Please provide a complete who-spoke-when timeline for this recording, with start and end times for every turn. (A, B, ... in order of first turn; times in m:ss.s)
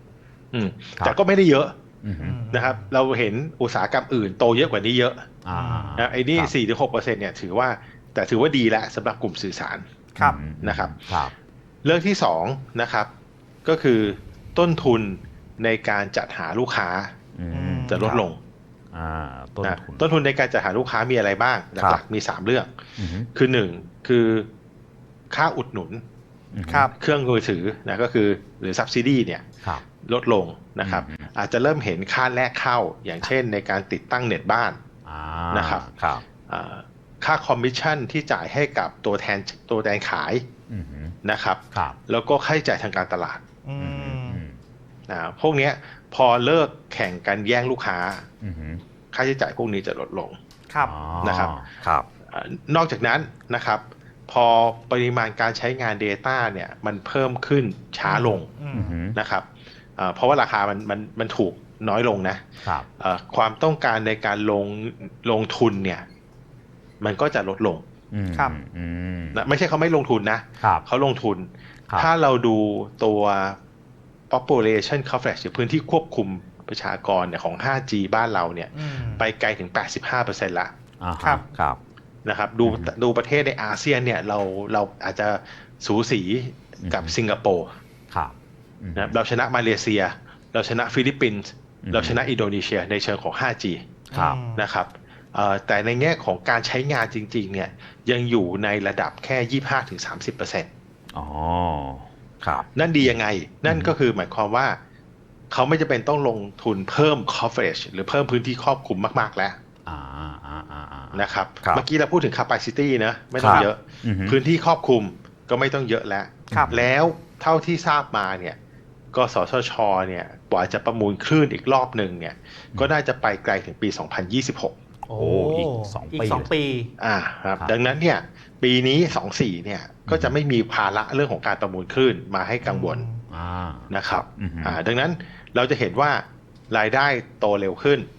0:00.5-0:01.8 A
0:02.0-0:02.4 B
0:02.2-0:02.9 C
0:02.5-0:05.3 A
0:05.4-0:06.5 B
0:05.5-0:06.0 C
0:06.0-0:09.8 A
0:10.2-0:11.3 B
0:10.6-0:11.0 A
0:11.8-0:13.1 A
0:13.6-0:17.1 A
0:17.4-0:18.2 B
0:17.5-0:18.2 C
0:17.9-0:18.4 A
0:18.9-0:20.1 B
0:19.6-0:22.8 A
0:23.0-0:23.3 B
0:23.3-0:24.5 A
0:25.3-0:26.0 A
0:26.5-0:26.9 B
0:26.7-0:26.9 C
0:27.0-0:29.5 A
0:30.0-0:34.8 A
0:30.8-0:31.3 B
0:35.0-0:36.2 B
0:35.5-0:35.9 A
0:36.5-0:40.4 A
0:40.7-0:41.2 B
0:41.2-0:43.4 A
0:43.6-0:44.4 C
0:43.8-0:44.6 B
0:45.1-0:48.2 A
0:48.4-0:48.8 B
0:49.1-0:50.4 A
0:50.8-0:52.1 B
0:51.2-0:51.5 A
0:52.3-0:58.5 A
0:58.0-0:59.0 C
0:58.7-0:59.2 B
0:59.1-1:02.4 A
1:03.0-1:06.0 A
1:07.0-1:07.8 A
1:08.1-1:09.4 B
1:09.4-1:13.6 A
1:14.3-1:20.7 A
1:18.7-1:19.2 C
1:21.0-1:21.8 B
1:22.2-1:27.7 A
1:22.6-1:22.9 B
1:26.8-1:27.1 B
1:28.1-1:29.1 B
1:29.0-1:33.8 A
1:31.8-1:32.2 B
1:34.1-1:34.6 C
1:34.1-1:34.4 B
1:34.6-1:40.7 A
1:41.1-1:43.1 B
1:42.8-1:44.8 A
1:43.7-1:43.9 B
1:45.5-1:49.6 A
1:49.9-1:51.8 B
1:51.1-1:58.6 A
1:53.4-1:54.4 B
1:56.5-1:56.8 B
1:59.1-2:04.8 A
2:05.1-2:06.5 B
2:05.1-2:06.9 C
2:07.0-2:13.1 A
2:10.1-2:10.4 B
2:12.6-2:13.2 C
2:13.3-2:14.8 B
2:13.9-2:18.1 A